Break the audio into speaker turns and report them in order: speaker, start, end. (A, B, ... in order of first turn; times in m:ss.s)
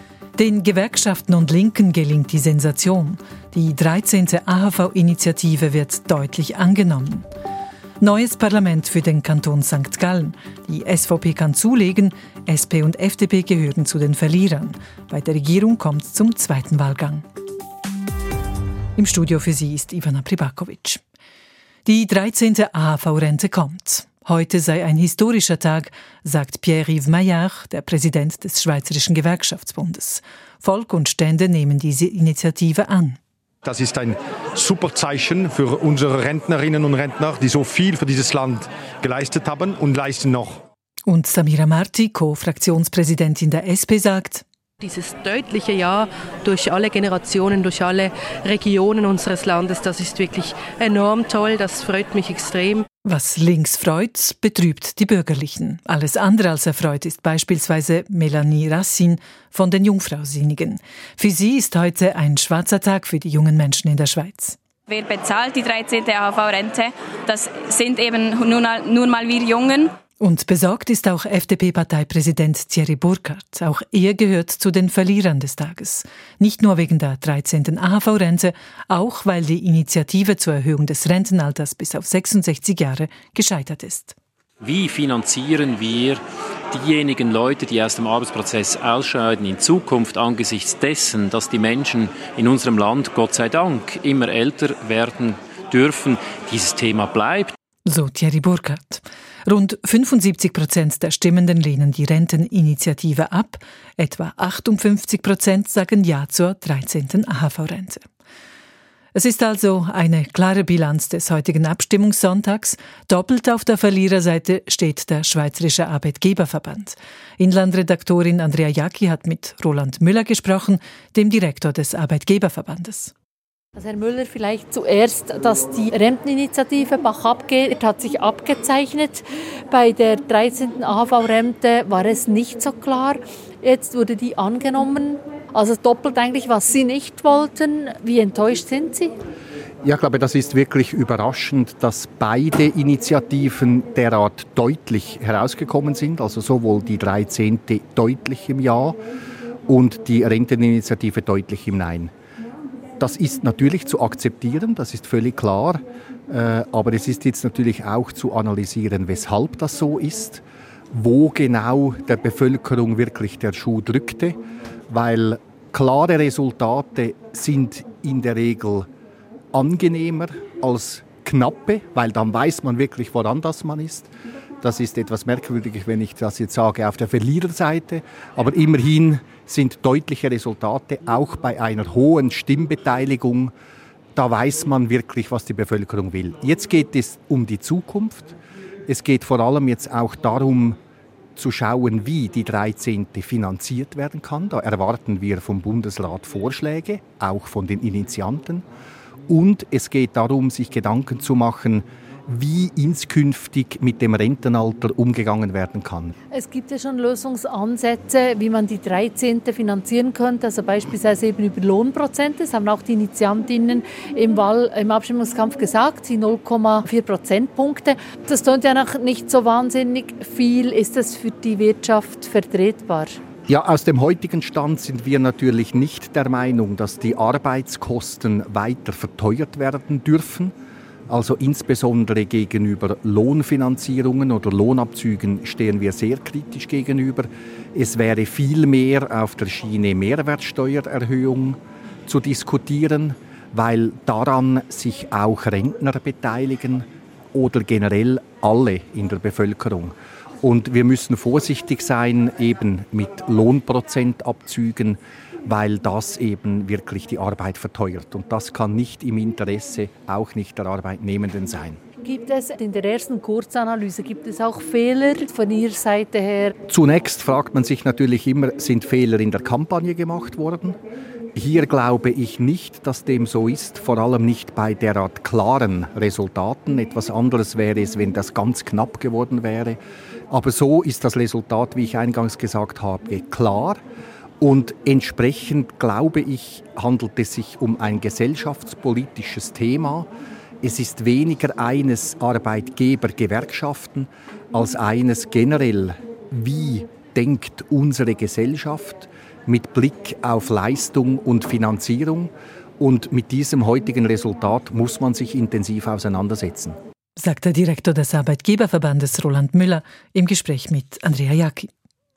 0:00.4-0:07.2 A
0:08.0-0:17.2 A
0:19.0-0:21.0 A
0:21.9-0:33.2 A
0:33.6-0:40.6 B
0:41.1-0:44.4 A
0:44.8-0:52.8 C
0:53.1-1:04.6 A
1:04.9-1:09.9 D
1:10.2-1:24.2 A
1:24.6-1:37.6 E
1:37.9-1:48.0 A
1:49.2-2:03.1 A
2:03.8-2:19.1 F
2:19.8-2:29.0 G
2:29.7-2:32.1 G
2:33.0-2:44.4 G
2:44.9-2:48.9 G
2:49.5-2:54.1 G
2:54.6-3:03.5 G
3:04.2-3:08.4 G
3:08.9-3:10.8 G
3:11.4-3:18.7 G
3:19.3-3:26.1 G
3:26.3-3:43.1 F
3:43.5-3:50.6 G
3:51.1-4:21.8 G
4:22.0-4:26.5 F
4:26.7-4:30.8 G
4:31.4-4:43.8 G
4:44.4-4:50.1 G
4:50.6-5:06.8 G
5:07.2-5:11.7 A